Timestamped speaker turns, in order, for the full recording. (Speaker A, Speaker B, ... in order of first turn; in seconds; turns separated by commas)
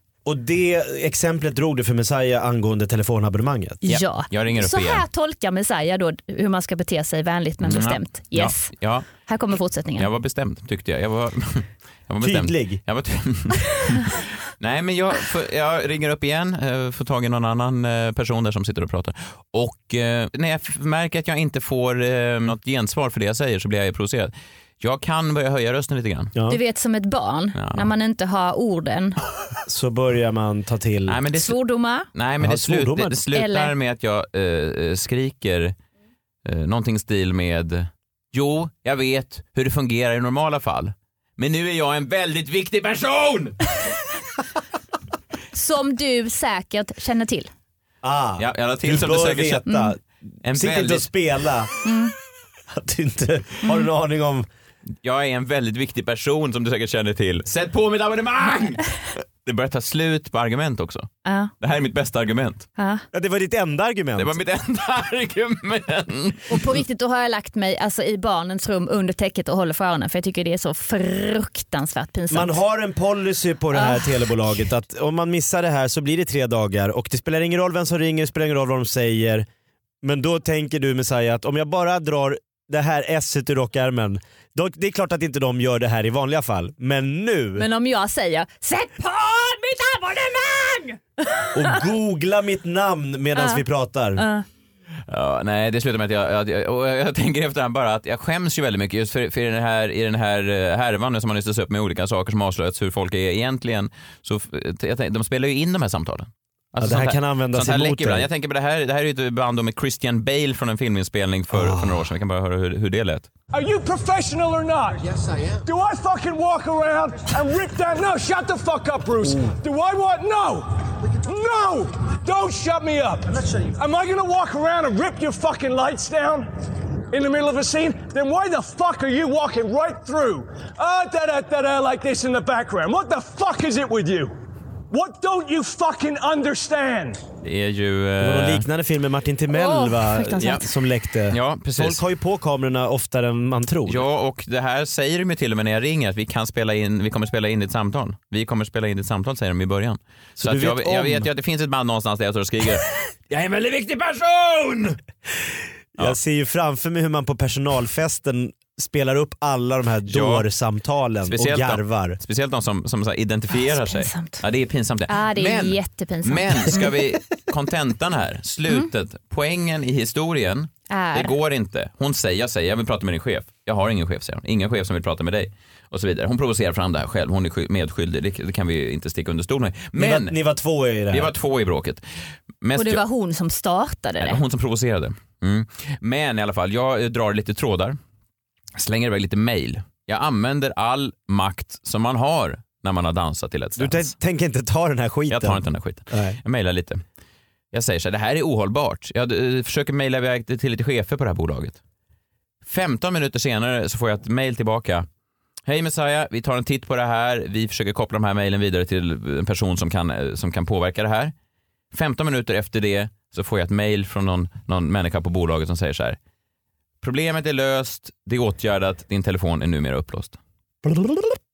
Speaker A: 0.2-3.8, Speaker B: 3.8-10.1, Speaker C: 3.9-5.0, Speaker C: 7.6-9.1, Speaker C: 10.0-26.3, Speaker A: 12.2-12.8, Speaker B: 26.5-29.2, Speaker C: 27.6-27.9, Speaker A: 29.7-31.2, Speaker C: 31.1-31.6, Speaker B: 31.3-32.1, Speaker C: 32.1-35.8, Speaker A: 32.4-33.2, Speaker B: 33.3-33.7, Speaker C: 36.5-43.9, Speaker B: 45.5-47.5, Speaker A: 48.0-51.7, Speaker C: 48.4-49.7, Speaker B: 49.7-49.9, Speaker C: 50.4-51.1, Speaker B: 51.9-52.1, Speaker A: 52.7-54.5, Speaker C: 55.0-61.1, Speaker B: 61.2-61.5, Speaker C: 61.6-62.7, Speaker B: 62.8-63.0, Speaker A: 63.1-64.4, Speaker C: 64.2-66.6, Speaker B: 66.5-72.6, Speaker A: 72.3-79.5, Speaker B: 73.7-74.6, Speaker A: 80.0-87.7, Speaker B: 87.6-91.8, Speaker A: 91.5-94.2, Speaker B: 93.4-93.6, Speaker B: 94.2-94.5, Speaker C: 95.1-113.3, Speaker A: 106.8-108.3, Speaker A: 111.5-112.0, Speaker D: 113.5-126.5, Speaker D: 127.1-134.3, Speaker D: 134.9-137.2, Speaker C: 137.4-138.7, Speaker A: 138.2-144.1, Speaker B: 139.5-140.6, Speaker C: 140.4-140.7, Speaker C: 141.3-142.0, Speaker C: 143.9-155.0, Speaker A: 150.4-151.3, Speaker A: 156.0-162.2, Speaker C: 160.1-160.5, Speaker C: 161.2-180.3, Speaker B: 163.6-164.4, Speaker B: 165.1-166.9, Speaker B: 170.9-171.3, Speaker A: 180.0-181.3, Speaker C: 181.1-182.0, Speaker C: 182.6-183.0, Speaker B: 182.8-184.4, Speaker C: 184.2-188.0, Speaker C: 188.8-194.1, Speaker A: 193.8-196.4, Speaker C: 195.3-197.0, Speaker C: 197.7-201.8, Speaker C: 202.6-205.1, Speaker C: 205.7-211.3, Speaker C: 211.9-216.2, Speaker C: 217.0-220.4, Speaker A: 220.8-221.4